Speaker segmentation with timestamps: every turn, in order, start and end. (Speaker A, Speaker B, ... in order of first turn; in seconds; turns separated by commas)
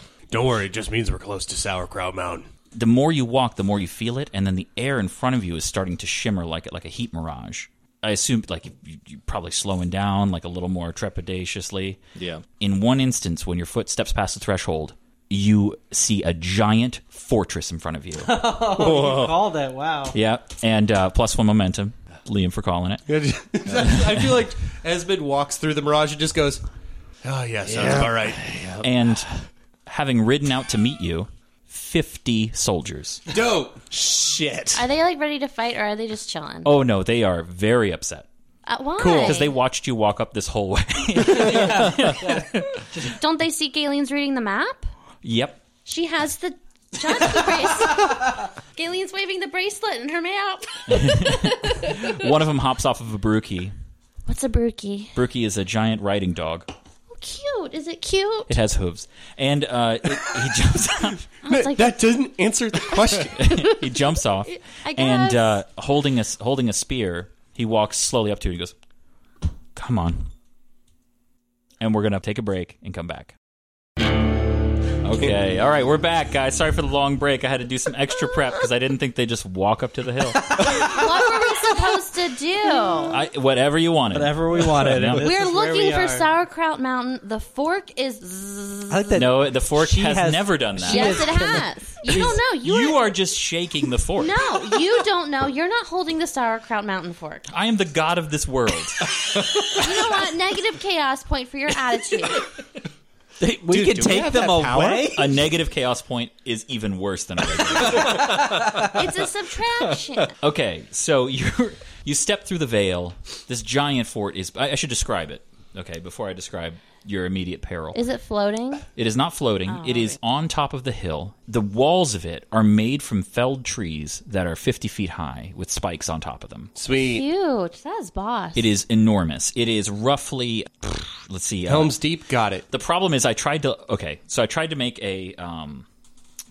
Speaker A: 0.3-2.5, Speaker B: 2.7-12.0, Speaker C: 12.2-12.4, Speaker B: 12.6-18.4, Speaker D: 18.2-20.1, Speaker C: 18.7-19.4, Speaker B: 20.1-23.0, Speaker A: 23.1-26.6, Speaker A: 27.2-28.4, Speaker C: 27.6-28.9, Speaker B: 28.8-33.2, Speaker A: 33.3-33.8, Speaker C: 33.9-34.8, Speaker E: 34.7-36.7, Speaker B: 36.6-38.3, Speaker E: 38.6-39.5, Speaker A: 39.0-39.4, Speaker B: 39.2-42.8, Speaker E: 43.0-44.9, Speaker B: 45.2-45.6, Speaker E: 45.8-52.3, Speaker B: 50.9-53.7, Speaker E: 54.2-55.1, Speaker B: 55.1-56.7, Speaker E: 57.1-58.5, Speaker B: 58.5-61.2, Speaker E: 61.4-62.2, Speaker A: 61.5-63.5, Speaker B: 63.4-68.7, Speaker E: 64.8-65.6, Speaker B: 69.7-70.3, Speaker B: 71.8-73.3, Speaker B: 75.0-80.7, Speaker E: 80.7-83.2, Speaker B: 83.1-85.3, Speaker D: 84.1-86.3, Speaker E: 85.2-89.2, Speaker D: 88.9-92.4, Speaker B: 89.2-91.4, Speaker E: 90.8-93.1, Speaker B: 92.6-94.4, Speaker E: 94.2-97.5, Speaker B: 97.5-99.1, Speaker E: 99.7-102.5, Speaker D: 103.4-105.2, Speaker C: 103.7-105.3, Speaker B: 105.1-108.4, Speaker E: 108.8-110.3, Speaker B: 110.4-118.0, Speaker E: 117.9-118.8, Speaker B: 119.0-126.7, Speaker E: 119.7-120.2, Speaker A: 126.7-127.2, Speaker E: 126.9-128.7, Speaker B: 128.5-131.9, Speaker A: 131.7-132.7, Speaker B: 132.7-135.8